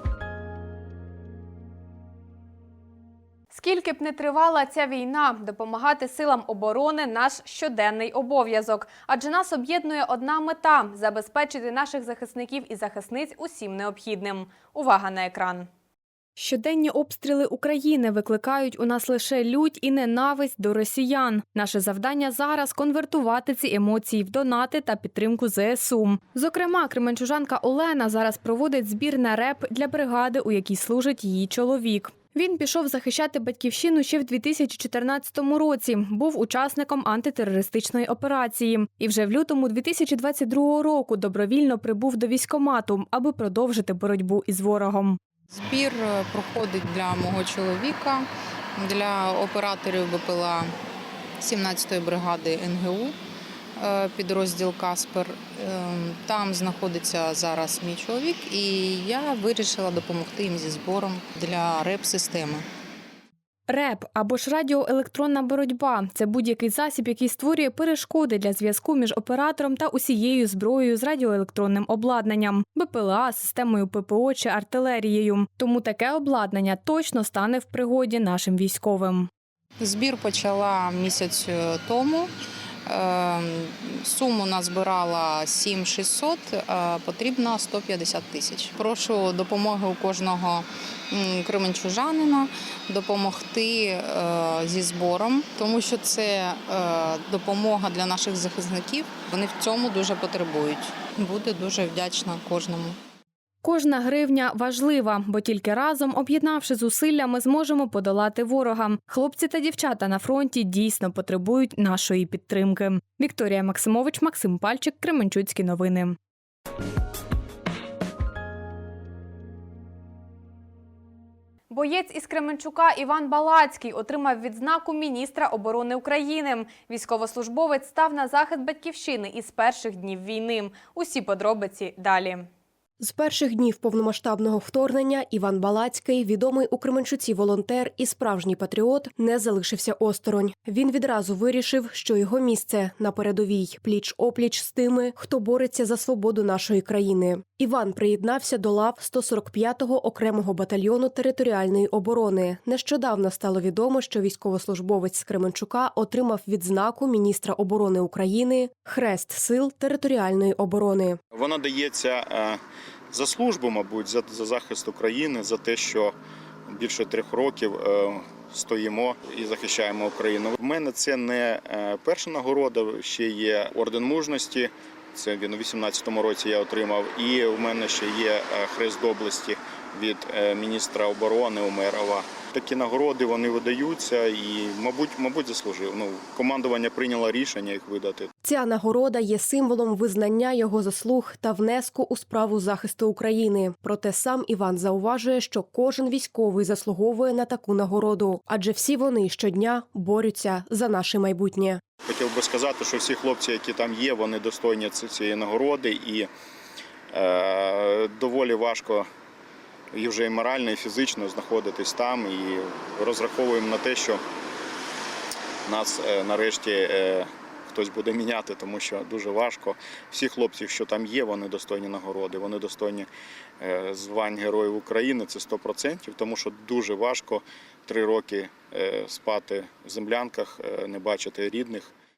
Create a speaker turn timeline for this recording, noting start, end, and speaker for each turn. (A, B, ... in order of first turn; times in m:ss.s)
0:03.5-0:15.7 A
0:16.4-0:45.2 A
0:45.5-0:48.2 B
0:48.8-0:50.6 B
0:51.4-0:53.1 B
0:53.8-1:02.6 B
1:03.7-1:19.3 A
1:19.8-1:22.2 B
1:22.9-1:30.6 B
1:31.1-1:43.0 B
1:43.6-1:56.2 A
2:01.7-2:12.5 A
2:13.0-2:41.2 C
2:41.3-2:42.6 D
2:43.1-2:46.1 D
2:46.7-3:08.3 D
3:08.4-3:21.8 C
3:22.1-3:26.3 D
3:27.1-3:29.1 D
3:29.9-3:34.2 D
3:35.7-3:43.1 D
3:43.6-3:51.9 D